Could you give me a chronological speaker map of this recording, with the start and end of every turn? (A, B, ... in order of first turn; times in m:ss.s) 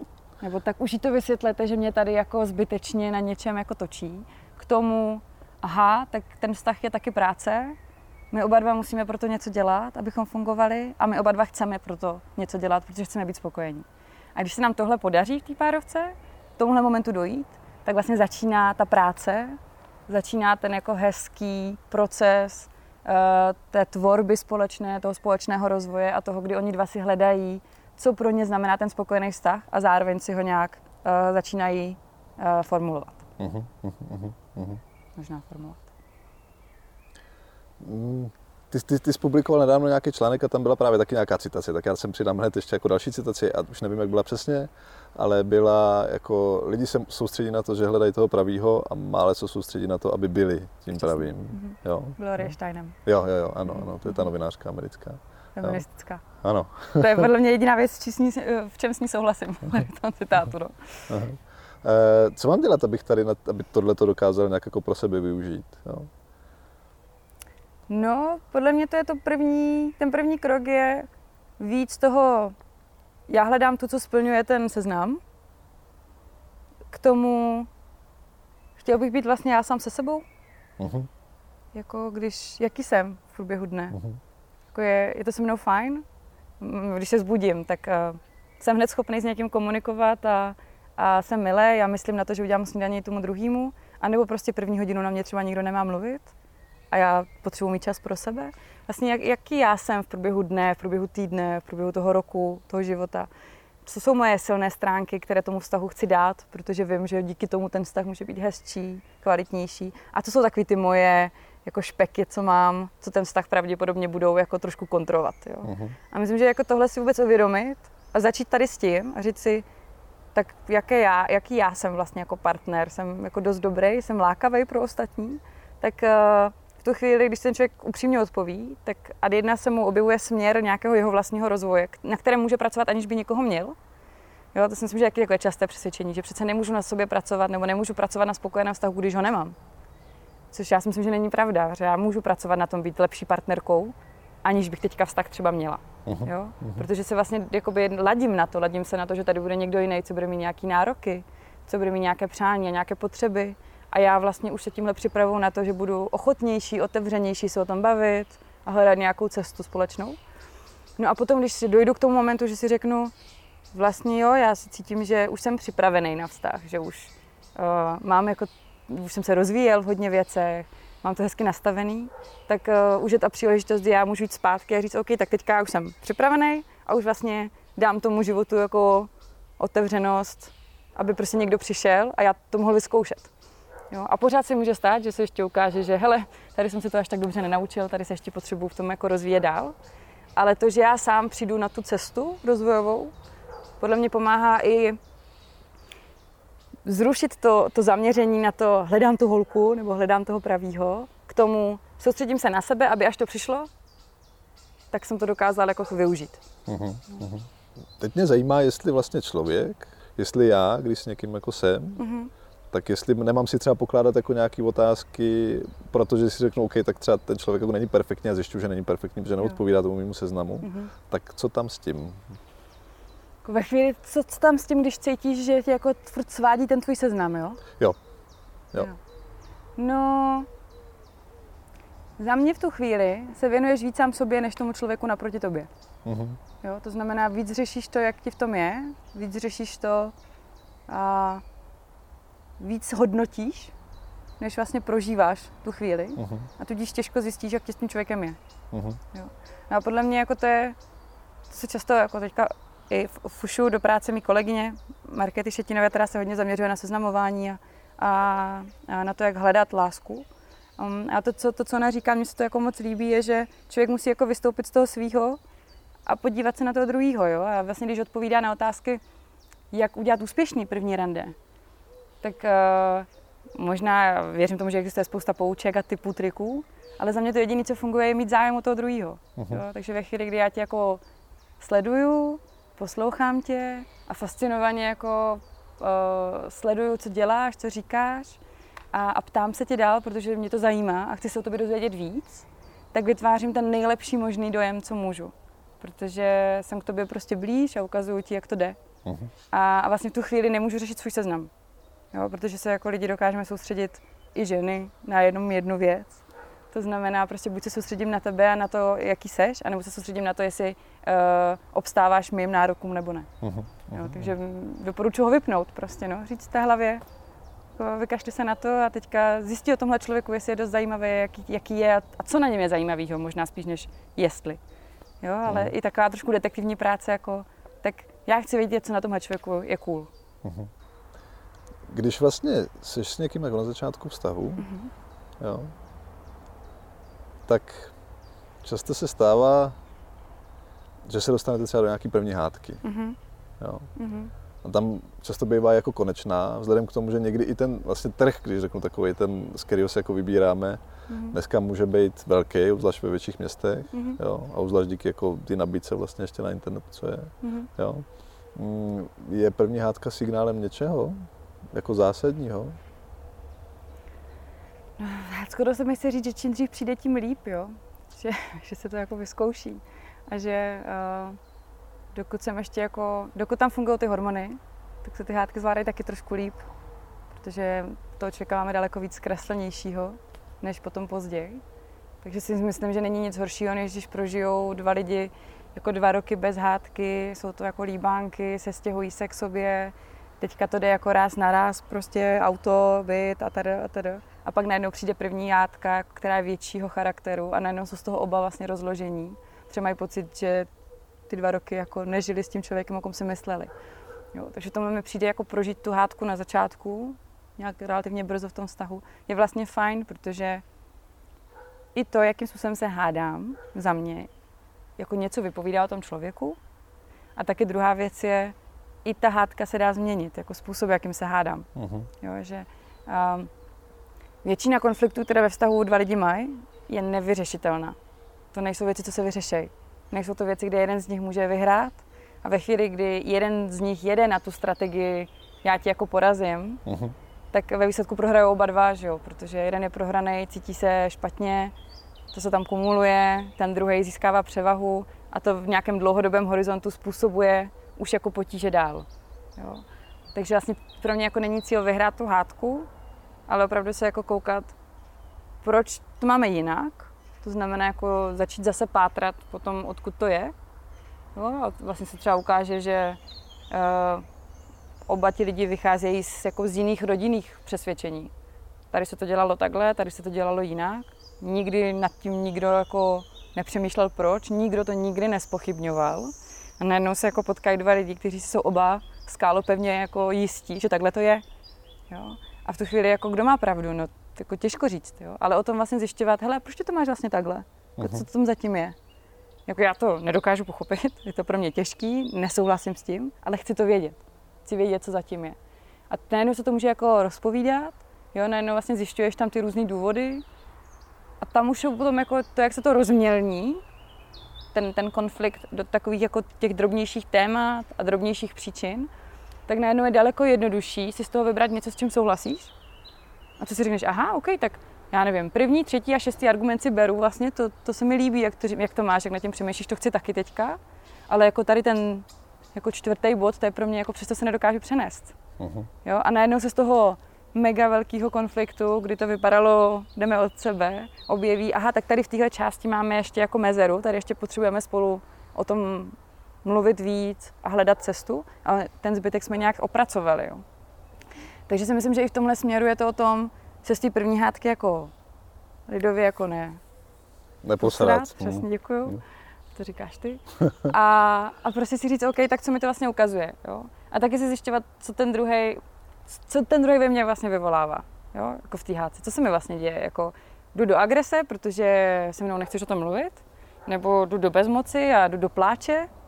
0:00.4-0:07.8 A
0:08.3-0:33.2 A
0:33.4-0:34.8 B
0:35.2-0:35.9 A
0:37.8-0:52.5 B
0:51.0-0:53.0 A
0:53.0-0:55.8 B
0:53.7-0:54.3 A
0:55.6-0:56.2 A
0:56.4-0:57.3 B
0:57.0-1:01.1 A
1:01.1-1:06.1 B
1:07.9-1:11.1 A
1:11.6-1:12.5 A
1:13.3-1:15.2 A
1:16.9-1:17.7 A
1:18.8-1:20.2 A
1:20.8-1:21.1 B
1:21.7-1:24.0 A
1:23.9-1:24.2 B
1:24.7-1:26.0 A
1:26.6-1:36.3 A
1:36.9-1:43.3 A
1:43.8-1:59.6 A
1:55.6-1:55.9 B
2:00.3-2:13.8 A
2:14.5-2:19.6 A
2:20.5-2:40.2 A
2:26.0-2:26.8 B
2:41.0-2:43.1 A
2:43.7-3:03.3 A
3:03.9-3:09.7 A
3:10.4-3:13.1 A
3:13.8-3:15.0 A
3:16.8-3:23.7 A
3:24.9-3:26.4 A
3:26.7-3:27.5 B
3:28.0-3:32.0 B
3:32.0-3:32.3 A
3:32.7-3:42.2 B
3:40.6-3:40.9 A
3:43.4-3:47.6 A
3:49.8-3:50.5 A
3:52.2-3:55.7 A
3:56.0-3:56.4 B
3:56.6-4:00.1 A
4:00.9-4:01.4 A
4:02.6-4:03.7 A
4:04.4-4:08.4 A
4:06.2-4:06.5 B
4:08.7-4:09.0 B
4:09.1-4:10.8 A
4:11.5-4:20.3 A
4:20.8-4:25.4 A
4:26.0-4:29.0 A
4:29.7-4:31.3 A
4:32.2-4:41.0 A
4:39.4-4:39.6 B
4:41.6-4:48.4 A
4:48.9-4:58.8 A
4:59.0-4:59.3 B
4:59.5-5:01.5 A
5:02.1-5:06.2 A
5:06.7-5:13.3 A
5:13.4-5:14.3 B
5:13.9-5:17.0 A
5:17.8-5:24.6 A
5:25.2-5:30.1 A
5:25.4-5:25.7 B
5:30.4-5:30.7 B
5:31.9-5:34.6 B
5:34.6-5:34.9 A
5:35.4-5:35.7 B
5:37.4-5:37.9 B
5:38.6-5:39.8 B
5:41.0-5:42.8 B
5:42.8-5:43.2 A
5:43.6-5:43.9 B
5:44.0-5:44.3 A
5:44.6-5:50.8 B
5:51.1-5:51.4 A
5:51.3-6:02.8 B
5:53.9-5:54.2 A
5:57.4-5:57.7 A
6:05.0-6:11.4 A
6:12.1-6:16.7 A
6:17.3-6:21.6 A
6:22.2-6:40.7 A
6:41.3-6:43.7 A
6:44.3-6:50.6 A
6:51.9-6:54.3 A
6:55.0-6:56.6 A
6:57.4-7:01.7 A
7:01.7-7:02.1 B
7:02.2-7:03.5 A
7:04.4-7:08.0 A
7:08.5-7:16.8 A
7:16.8-7:17.1 B
7:17.5-7:21.7 A
7:22.3-7:32.9 A
7:33.5-7:34.7 A
7:35.6-7:40.5 A
7:41.3-7:43.2 A
7:43.7-7:44.2 A
7:45.1-7:48.3 A
7:48.9-8:01.4 A
8:02.1-8:09.0 A
8:08.0-8:08.2 B
8:09.7-8:15.6 A
8:16.1-8:20.4 A
8:21.4-8:23.8 A
8:24.7-8:29.1 A
8:29.7-8:32.7 A
8:33.6-8:45.4 A
8:45.6-8:45.9 B
8:46.0-9:00.6 A
9:01.7-9:05.1 A
9:05.9-9:06.8 A
9:07.6-9:09.2 B
9:07.8-9:09.2 A
9:09.7-9:26.1 A